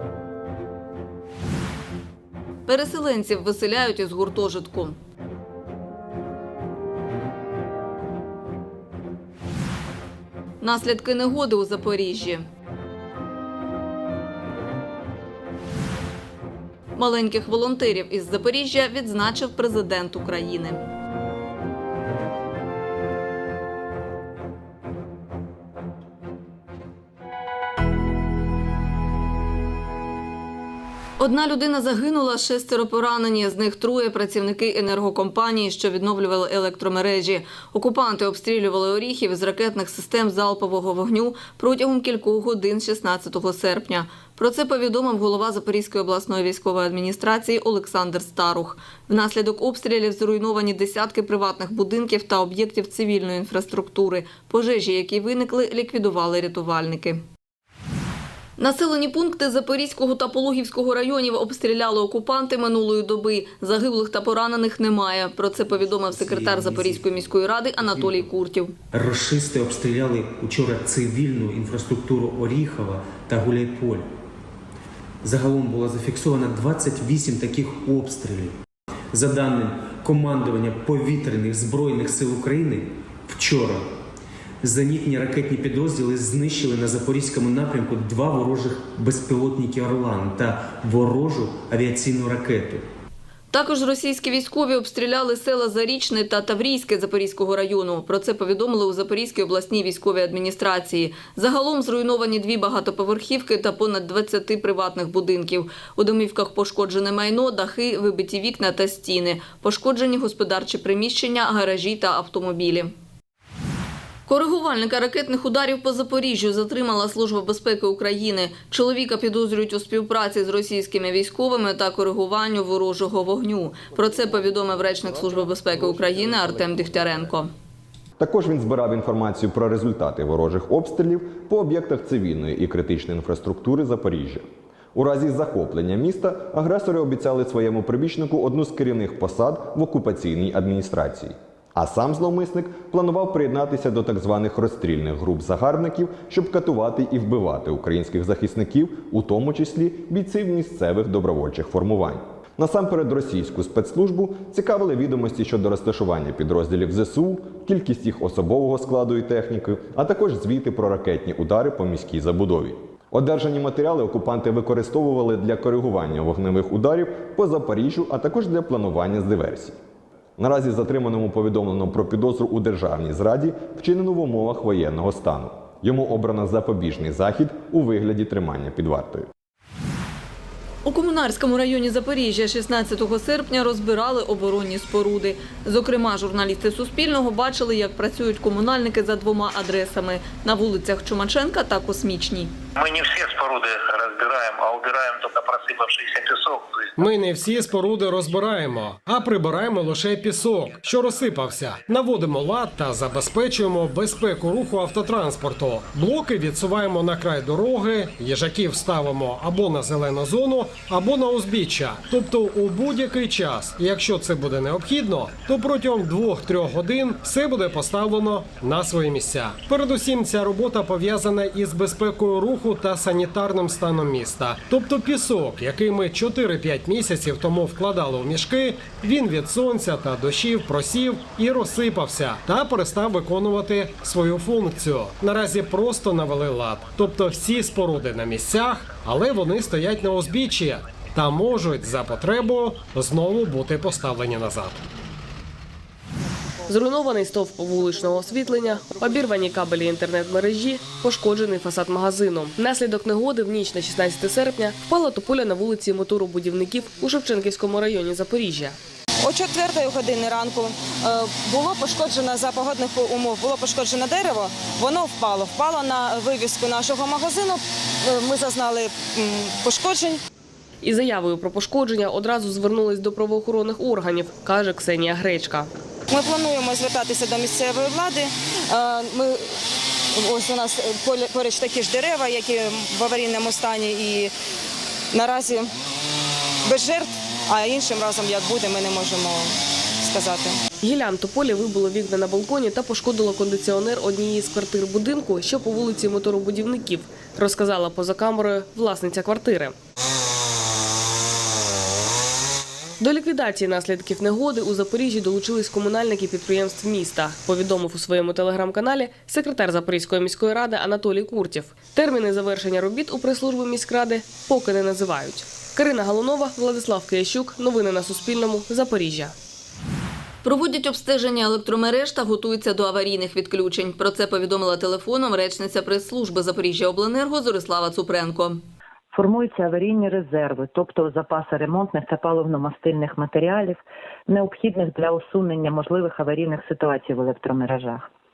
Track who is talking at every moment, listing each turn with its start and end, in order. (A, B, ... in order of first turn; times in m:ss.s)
0:02.7-0:05.0 A
0:10.6-0:12.4 A
0:17.0-0:20.8 A
0:31.2-0:57.2 A
0:58.6-1:08.7 A
1:06.1-1:07.0 B
1:08.9-1:14.1 B
1:15.2-1:18.5 B
1:19.1-1:23.8 B
1:24.6-1:32.8 B
1:33.5-1:52.9 A
1:54.3-2:07.5 A
2:08.2-2:49.8 C
2:50.4-2:59.3 C
3:00.8-3:12.5 A
3:12.8-3:16.3 D
3:12.8-3:16.6 E
3:17.0-4:04.8 F
4:06.7-4:18.8 G
4:19.2-4:30.2 H
4:30.8-4:35.7 G
4:36.2-4:39.4 H
4:40.2-4:44.3 H
4:45.1-4:45.7 H
4:46.7-4:49.4 H
4:50.0-4:50.5 H
4:50.8-4:59.7 G
5:03.0-5:19.3 G
5:20.4-5:28.6 A
5:29.1-5:33.8 E
5:34.3-5:38.0 E